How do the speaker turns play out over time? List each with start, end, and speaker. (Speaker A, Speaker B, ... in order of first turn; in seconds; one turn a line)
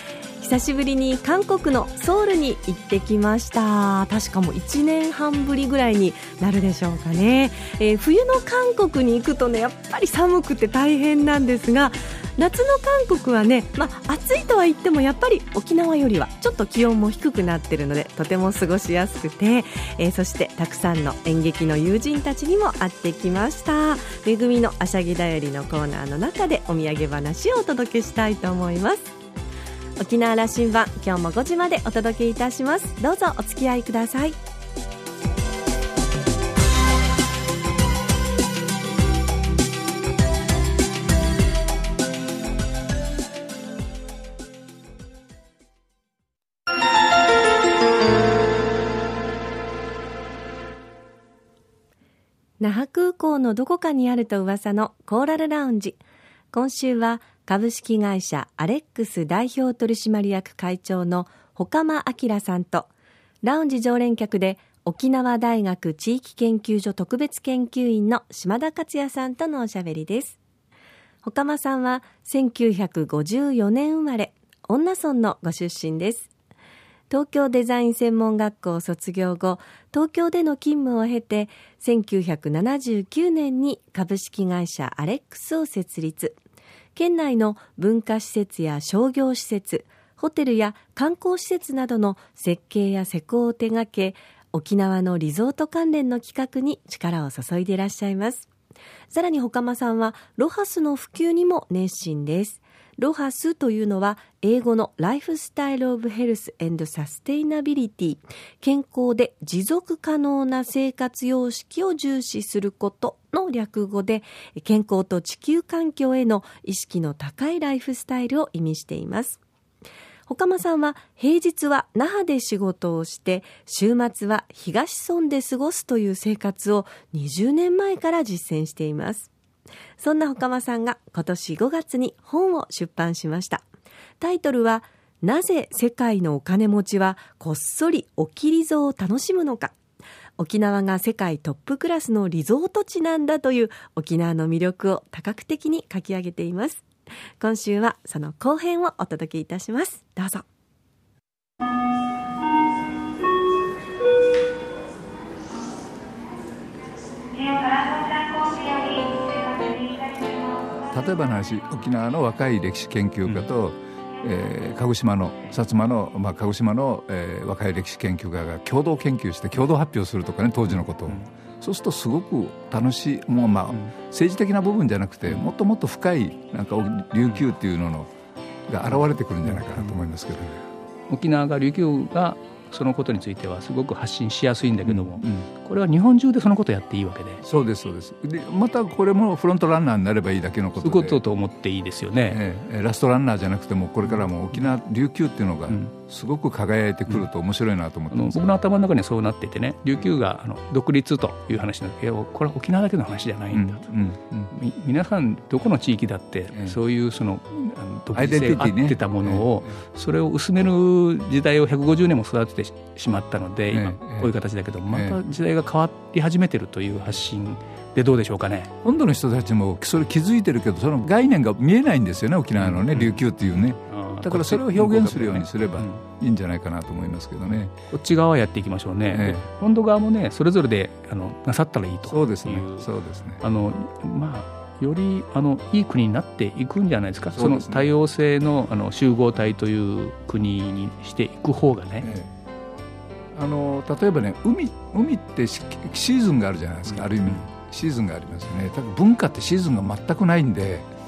Speaker A: 0.4-29.1
Speaker A: 30.0-34.4
Speaker A: 52.6-56.0
Speaker A: 56.5-62.9
Speaker A: 63.4-70.4
Speaker A: 71.2-76.3
Speaker A: 77.1-86.4
Speaker A: 87.0-98.5
Speaker A: 99.1-119.4
Speaker A: 120.3-129.3
Speaker A: 130.0-133.6
Speaker A: 134.2-139.7
Speaker A: 140.4-146.8
Speaker A: 147.4-150.4
Speaker A: 157.4-160.2
Speaker B: 160.9-178.1
Speaker B: 178.7-180.6
Speaker C: 179.5-179.9
Speaker C: 181.1-187.4
Speaker B: 184.8-185.5
Speaker B: 187.4-191.2
Speaker C: 190.8-192.4
Speaker B: 192.3-198.4
Speaker C: 198.1-203.9
Speaker B: 203.5-204.5
Speaker C: 204.5-218.7
Speaker B: 208.1-209.7
Speaker B: 213.7-214.3
Speaker B: 214.9-215.2
Speaker B: 218.8-227.7
Speaker C: 222.8-223.2
Speaker C: 223.9-226.0
Speaker C: 227.9-232.9
Speaker B: 229.1-229.4
Speaker B: 232.1-233.4
Speaker C: 233.4-242.1
Speaker B: 237.3-237.9
Speaker B: 242.0-242.3
Speaker B: 243.3-250.9
Speaker C: 246.9-247.4